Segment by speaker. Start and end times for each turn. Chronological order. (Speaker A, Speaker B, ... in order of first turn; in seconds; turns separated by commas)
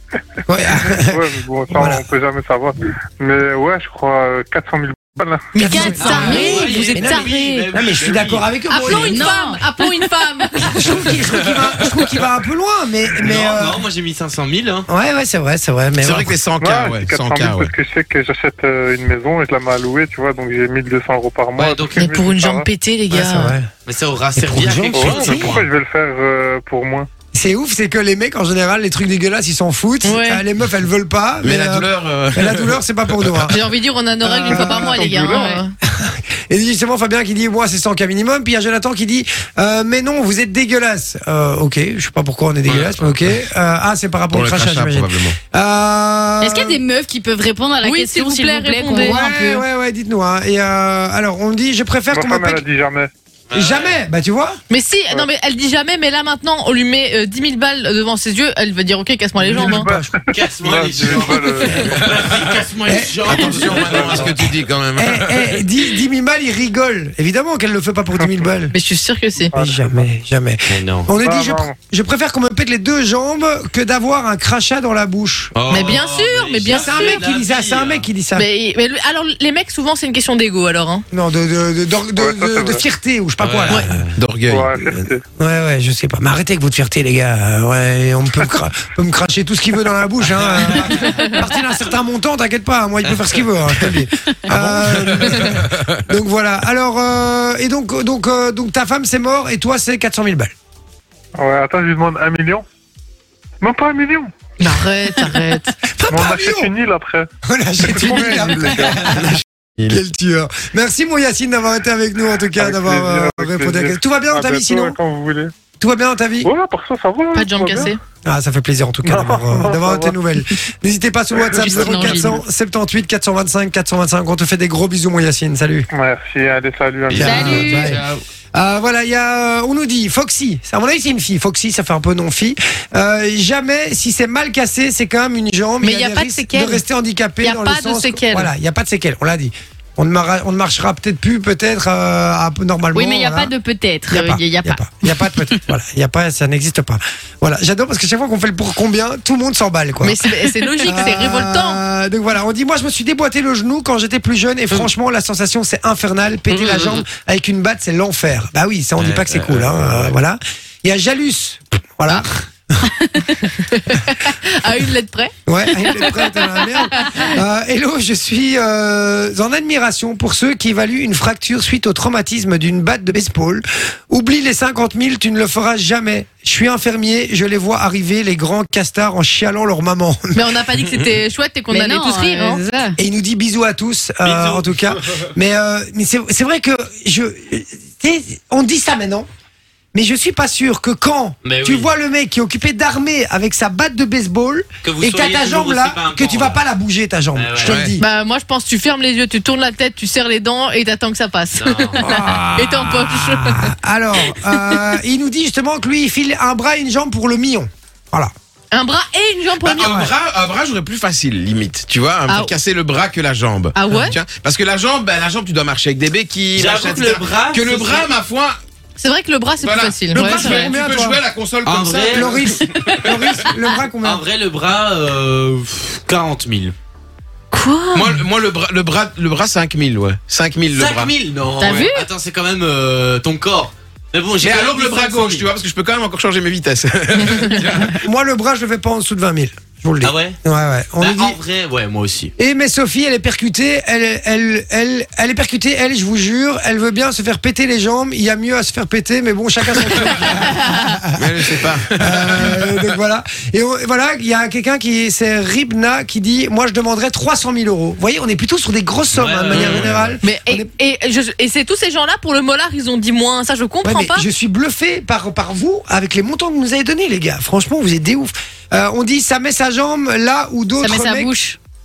Speaker A: 0.5-2.0, Speaker B: 0.6-5.9, Speaker C: 5.5-7.7, Speaker A: 5.5-9.3, Speaker D: 5.8-9.0, Speaker E: 6.0-6.5, Speaker C: 8.7-10.9, Speaker E: 8.9-10.1, Speaker A: 10.6-13.8, Speaker D: 13.2-14.9, Speaker A: 14.9-16.4, Speaker F: 16.0-17.7, Speaker B: 16.6-22.7, Speaker D: 21.6-22.3, Speaker C: 21.9-23.6, Speaker A: 23.1-23.7, Speaker D: 23.9-25.7, Speaker A: 24.4-25.6, Speaker B: 24.9-27.1, Speaker A: 27.3-33.6, Speaker C: 30.0-30.4, Speaker F: 31.4-33.5, Speaker C: 33.5-35.7, Speaker A: 34.2-35.0, Speaker B: 34.4-35.5, Speaker E: 35.3-35.6, Speaker A: 35.8-46.8, Speaker F: 42.7-43.1, Speaker F: 44.3-45.4, Speaker E: 46.4-49.6, Speaker C: 47.8-49.2, Speaker A: 48.9-52.6, Speaker B: 52.1-53.1, Speaker D: 53.5-54.0, Speaker A: 53.5-54.6, Speaker C: 54.7-59.9, Speaker A: 59.4-60.1, Speaker B: 59.5-62.0, Speaker D: 60.3-64.5, Speaker F: 62.1-62.4, Speaker A: 62.8-64.1, Speaker F: 63.2-65.8, Speaker B: 63.5-64.3, Speaker A: 65.0-68.7, Speaker B: 68.1-68.5, Speaker C: 68.7-69.5, Speaker B: 69.5-70.1, Speaker A: 69.5-75.9, Speaker D: 70.7-71.1, Speaker B: 71.1-71.8, Speaker D: 75.5-78.1, Speaker C: 75.7-77.3, Speaker A: 76.7-78.5, Speaker C: 78.3-81.0, Speaker A: 81.1-84.0, Speaker B: 82.1-82.8, Speaker D: 83.4-84.1, Speaker F: 84.1-84.7, Speaker B: 84.5-85.2, Speaker A: 84.9-100.5, Speaker D: 90.4-90.9, Speaker C: 90.8-91.3, Speaker F: 94.5-96.0, Speaker B: 101.3-102.6, Speaker B: 103.6-104.5, Speaker C: 104.6-105.8, Speaker A: 105.9-106.7, Speaker B: 106.1-109.2, Speaker A: 107.4-115.0, Speaker F: 109.2-110.0, Speaker B: 112.5-115.5, Speaker A: 115.8-116.5, Speaker B: 116.4-117.9, Speaker C: 117.3-118.0, Speaker A: 118.2-125.9, Speaker B: 119.0-120.2, Speaker B: 121.3-122.3, Speaker C: 121.5-122.4, Speaker B: 125.9-127.8, Speaker A: 127.1-143.5, Speaker E: 127.2-127.9, Speaker D: 127.3-128.2, Speaker C: 135.8-136.8, Speaker C: 137.4-138.5, Speaker E: 142.9-145.5, Speaker A: 144.1-150.2, Speaker C: 150.0-151.8, Speaker E: 150.7-151.1, Speaker A: 150.8-162.9, Speaker D: 159.0-160.1, Speaker E: 162.8-163.2, Speaker C: 163.4-167.3, Speaker A: 165.5-180.4, Speaker C: 180.3-182.6, Speaker E: 181.7-183.0, Speaker A: 183.0-189.3, Speaker D: 184.3-184.6, Speaker A: 189.9-198.0, Speaker D: 191.4-191.9, Speaker D: 194.8-196.6, Speaker D: 197.3-197.8, Speaker F: 197.6-197.9, Speaker C: 198.0-203.7, Speaker D: 201.5-202.1, Speaker A: 202.0-208.3, Speaker C: 204.3-205.0, Speaker C: 208.7-210.1, Speaker F: 209.6-218.6, Speaker C: 212.3-212.5, Speaker C: 213.7-214.2, Speaker D: 216.5-218.1, Speaker C: 219.0-220.8, Speaker F: 219.6-222.6, Speaker A: 220.1-221.2, Speaker D: 221.6-226.7, Speaker A: 222.1-224.2, Speaker C: 227.5-228.2, Speaker F: 227.9-231.1, Speaker D: 230.7-235.5, Speaker E: 231.6-232.1, Speaker C: 231.6-231.9, Speaker F: 234.4-238.0, Speaker A: 237.8-241.4, Speaker D: 240.0-240.4, Speaker D: 241.0-242.3, Speaker A: 242.4-251.2, Speaker F: 251.2-252.9, Speaker A: 252.0-260.7, Speaker D: 259.1-260.1, Speaker F: 259.5-260.1, Speaker C: 260.2-264.2, Speaker A: 263.8-271.3, Speaker E: 270.8-271.6